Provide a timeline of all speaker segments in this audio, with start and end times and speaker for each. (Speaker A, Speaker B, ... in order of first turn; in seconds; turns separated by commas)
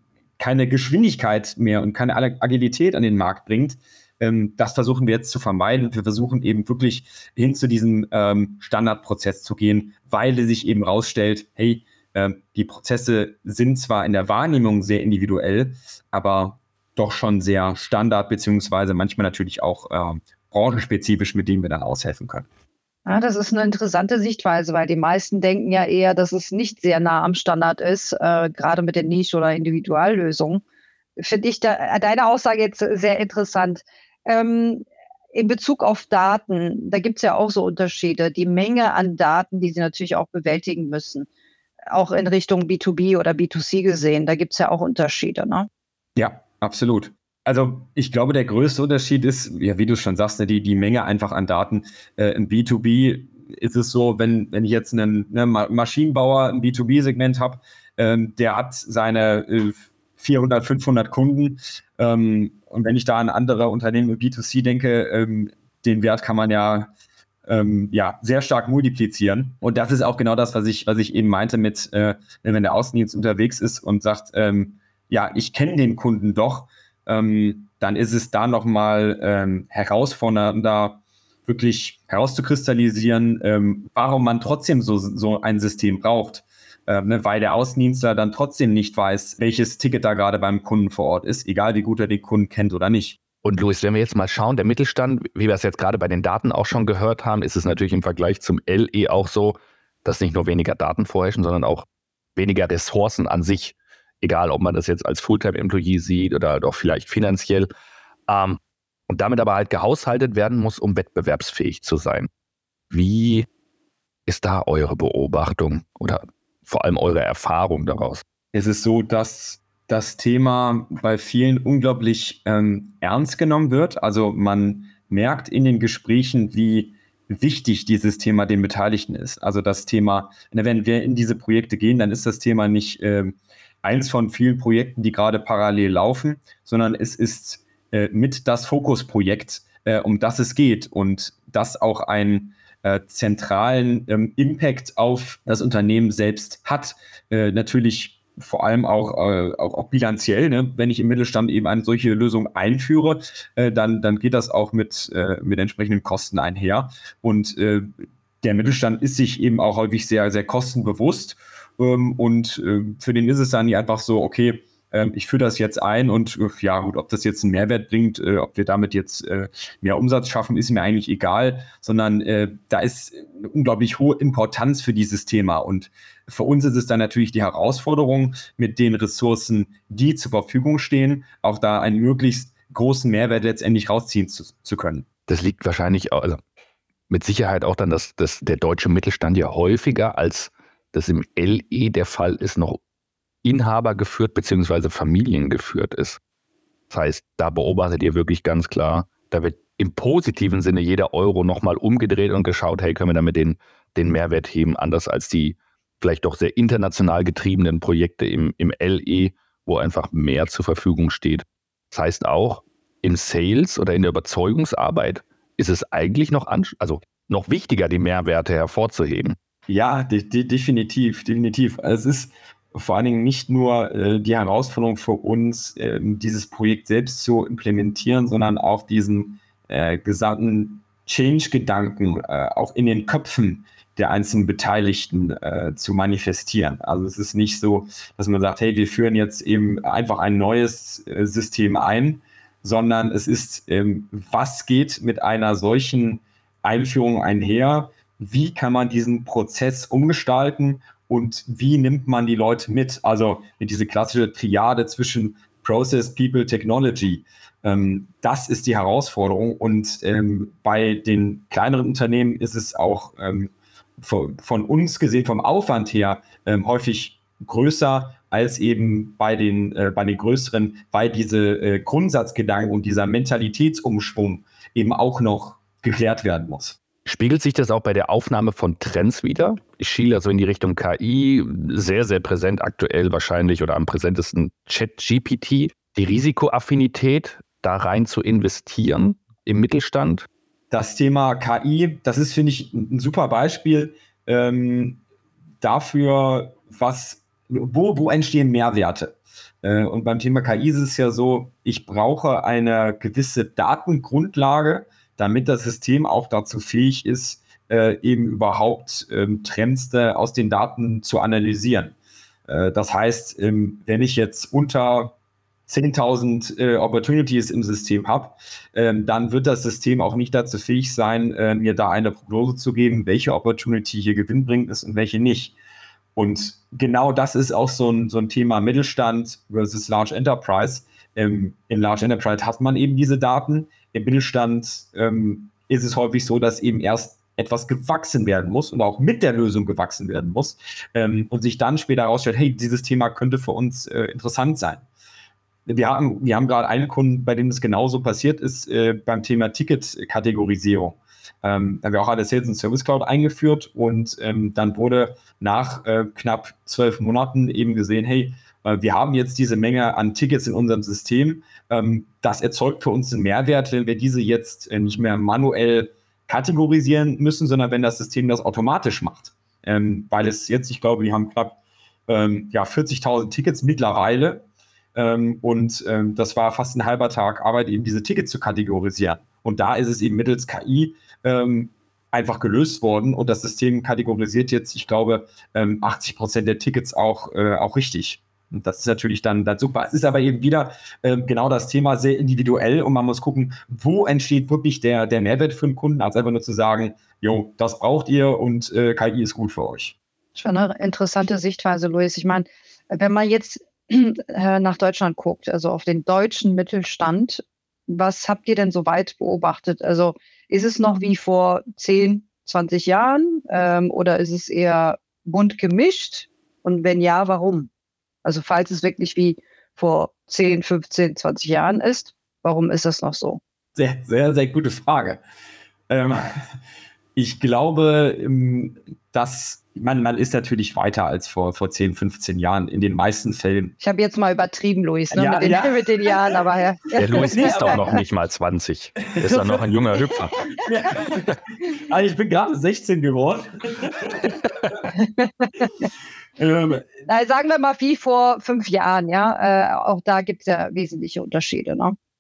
Speaker A: 0.4-22.5, Speaker B: 23.1-30.6, Speaker B: 31.2-41.3, Speaker B: 41.9-45.7, Speaker A: 46.2-66.9, Speaker A: 67.5-93.2, Speaker C: 93.4-107.7, Speaker C: 108.3-112.3, Speaker C: 112.9-113.5, Speaker C: 114.3-118.2, Speaker A: 118.5-157.9, Speaker A: 158.4-185.1, Speaker C: 185.3-186.4, Speaker C: 187.1-192.8, Speaker C: 193.4-196.2, Speaker C: 196.9-219.4, Speaker A: 219.7-276.8, Speaker C: 277.1-290.3, Speaker A: 290.7-295.0, Speaker A: 295.6-311.9, Speaker A: 312.5-315.1, Speaker A: 315.7-325.6, Speaker A: 326.2-344.9, Speaker A: 345.7-374.4, Speaker A: 374.9-399.9, Speaker B: 400.4-417.7, Speaker B: 418.2-423.4, Speaker A: 423.8-425.2, Speaker A: 425.9-426.2, Speaker A: 427.2-433.8, Speaker B: 433.8-438.0, Speaker A: 435.1-436.3, Speaker C: 437.0-440.4, Speaker A: 437.0-437.9, Speaker A: 439.0-439.9, Speaker A: 440.6-444.4, Speaker C: 441.1-441.4, Speaker B: 445.0-445.8, Speaker A: 446.4-446.9, Speaker B: 447.1-452.0